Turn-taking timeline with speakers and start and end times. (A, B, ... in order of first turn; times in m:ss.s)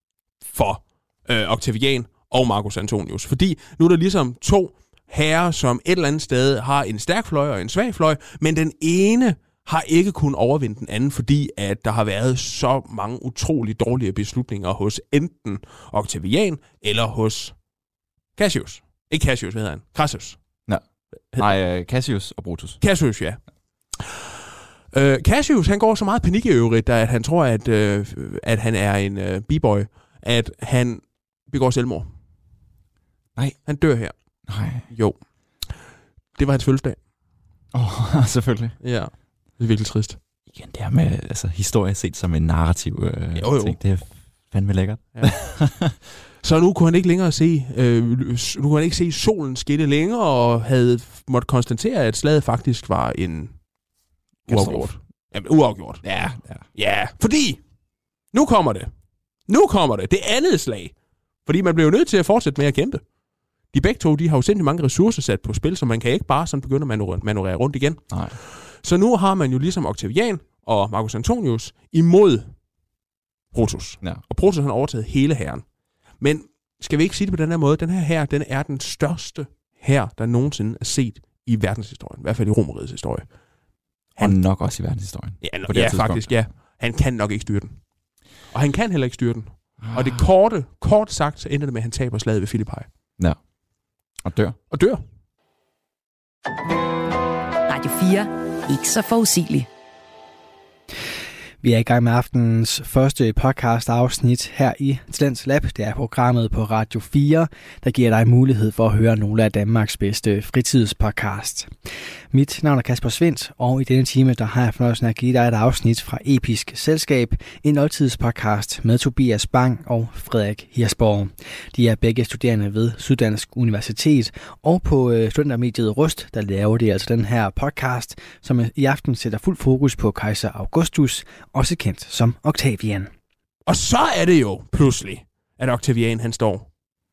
0:00.5-0:17.6 A
0:18.4-0:20.4 A
0:20.7-0:22.8 B
0:22.8-0:23.4 A
0:24.9-0:32.0 A
0:33.6-0:34.1 A
0:34.5-0:34.8 B
0:34.9-0:35.2 A
0:36.4-0:37.0 A
0:37.7-0:38.8 B
0:38.8-0:40.2 A
0:40.5-0:46.0 B
0:43.4-0:43.8 A
0:46.4-0:53.6 A
0:54.5-0:56.2 A
0:54.5-0:54.9 B
0:56.0-0:56.6 B
0:56.7-0:57.6 A
0:58.3-0:58.9 A
0:59.5-1:00.9 A
1:01.4-1:03.0 A
1:03.7-1:12.5 A
1:08.1-1:08.4 B
1:13.5-1:15.6 A
1:16.2-1:23.3 A
1:24.2-1:26.4 B
1:25.4-1:27.8 A
1:28.5-1:32.9 A
1:29.8-1:30.2 B
1:34.2-1:34.6 B
1:34.7-1:35.0 A
1:37.7-1:39.7 C
1:41.6-1:51.7 D
1:52.3-2:13.1 D
2:13.7-2:16.7 A